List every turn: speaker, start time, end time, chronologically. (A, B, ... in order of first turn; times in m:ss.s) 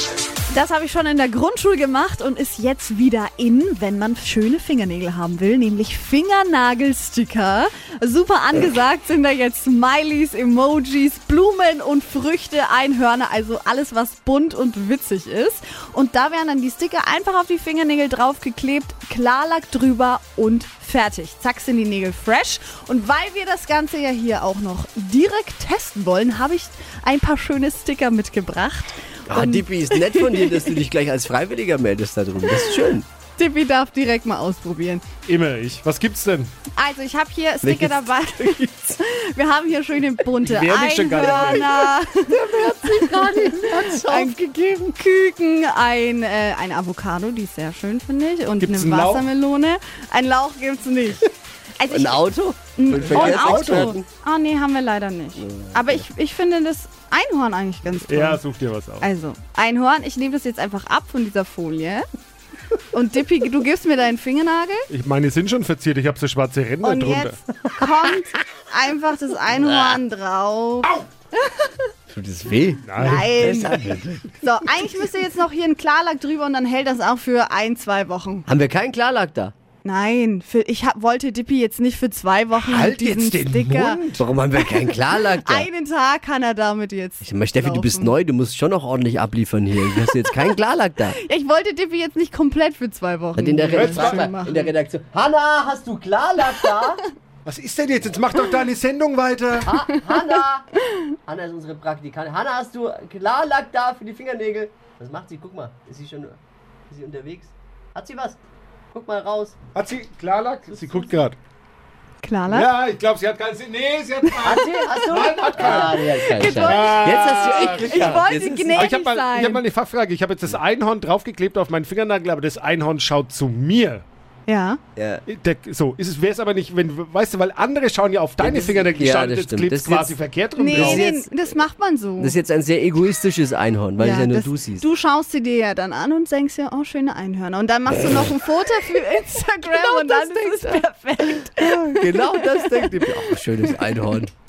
0:00.5-0:30.8 A
0:29.3-0:33.0 B
0:32.5-0:32.8 A
0:33.4-0:35.0 A
0:35.2-0:36.5 C
0:36.7-0:52.2 A
0:37.6-0:39.0 B
0:40.4-0:41.7 C
0:41.2-0:44.7 B
0:48.6-0:49.3 C
0:51.9-0:54.0 B
0:52.8-0:58.4 A
0:52.9-0:53.9 C
0:55.4-0:56.0 B
0:58.1-0:59.1 C
0:59.0-1:02.1 A
1:02.9-1:04.9 A
1:04.9-1:07.4 C
1:06.8-1:11.8 A
1:07.7-1:08.2 B
1:09.6-1:10.0 B
1:12.1-1:14.4 B
1:12.8-1:13.7 C
1:13.0-1:18.4 A
1:18.5-1:19.5 B
1:19.8-1:24.0 A
1:22.6-1:24.3 C
1:24.2-1:25.7 B
1:24.6-1:28.1 A
1:27.2-1:31.2 B
1:31.1-1:34.7 A
1:33.4-1:37.0 B
1:33.7-1:34.3 C
1:37.4-1:39.7 C
1:39.7-1:40.7 B
1:41.2-1:48.4 B
1:48.9-1:49.6 B
1:49.7-1:51.4 C
1:50.7-1:51.0 B
1:52.2-1:52.7 A
1:52.5-2:04.0 C
1:54.3-1:59.6 A
1:54.4-1:58.9 B
2:04.5-2:04.8 A
2:05.0-2:05.2 B
2:05.3-2:11.1 C
2:08.4-2:10.2 B
2:10.6-2:12.3 A
2:10.7-2:11.6 B
2:12.2-2:14.8 B
2:14.0-2:23.9 A
2:19.7-2:20.8 B
2:21.5-2:24.3 B